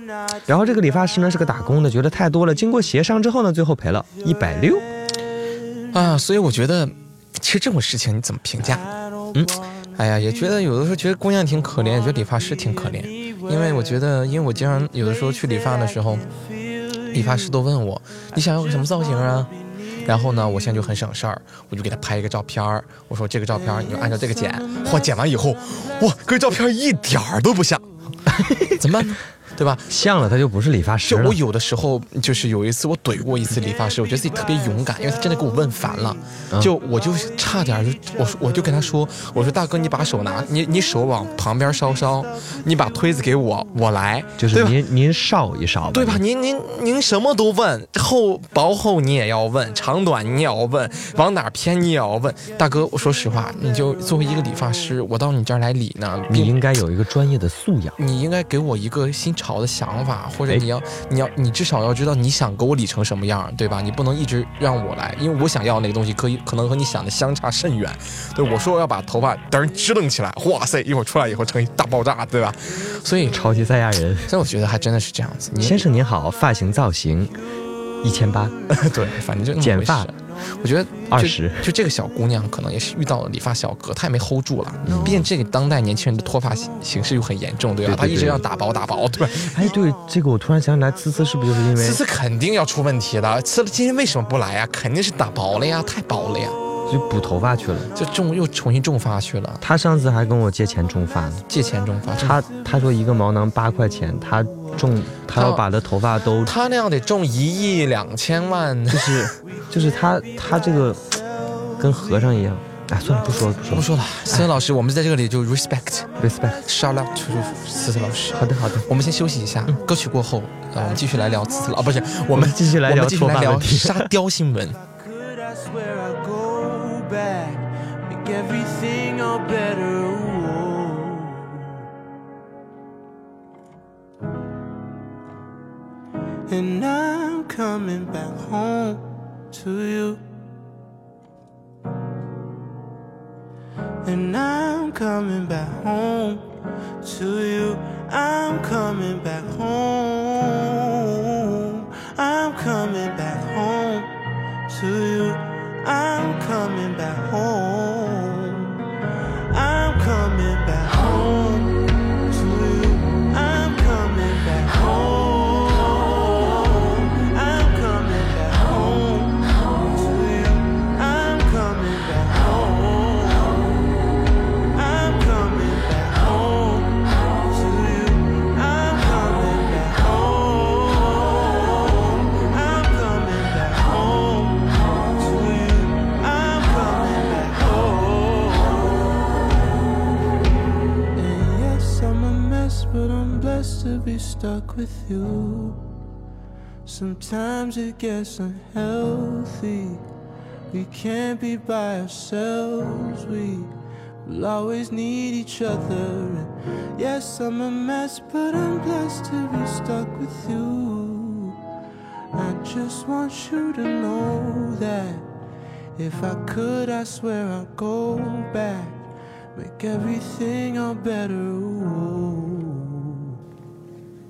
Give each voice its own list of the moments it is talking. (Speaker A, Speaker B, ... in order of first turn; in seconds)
Speaker A: 0.5-4.9, 28.3-28.8, 29.9-31.4, 44.4-46.2, 56.3-58.0, 73.3-74.3, 75.6-77.3, 78.0-78.5, 79.6-80.1, 81.1-81.7, 84.8-85.3, 87.8-88.4, 89.4-92.0, 96.9-97.9, 99.6-101.4, 102.2-106.5, 108.9-111.2, 111.8-114.5, 116.2-116.6, 118.3-118.9, 122.3-124.1
Speaker B: 5.9-8.9, 10.0-16.3, 17.1-19.5, 20.0-27.9, 28.8-29.9, 31.1-44.8, 45.9-56.6, 58.0-73.4, 74.3-75.9, 78.7-89.7, 91.8-96.6, 97.9-99.6, 101.5-102.4, 105.3-105.6, 106.4-109.3, 113.7-116.1, 116.6-124.8
Speaker C: 125.0-131.7, 136.5-140.2, 144.0-146.5, 147.0-154.1, 154.7-158.8, 159.5-173.8, 174.7-189.2, 191.1-195.8, 196.9-200.0, 200.7-203.7, 204.2-211.6, 212.3-215.3, 215.9-219.0, 219.6-223.3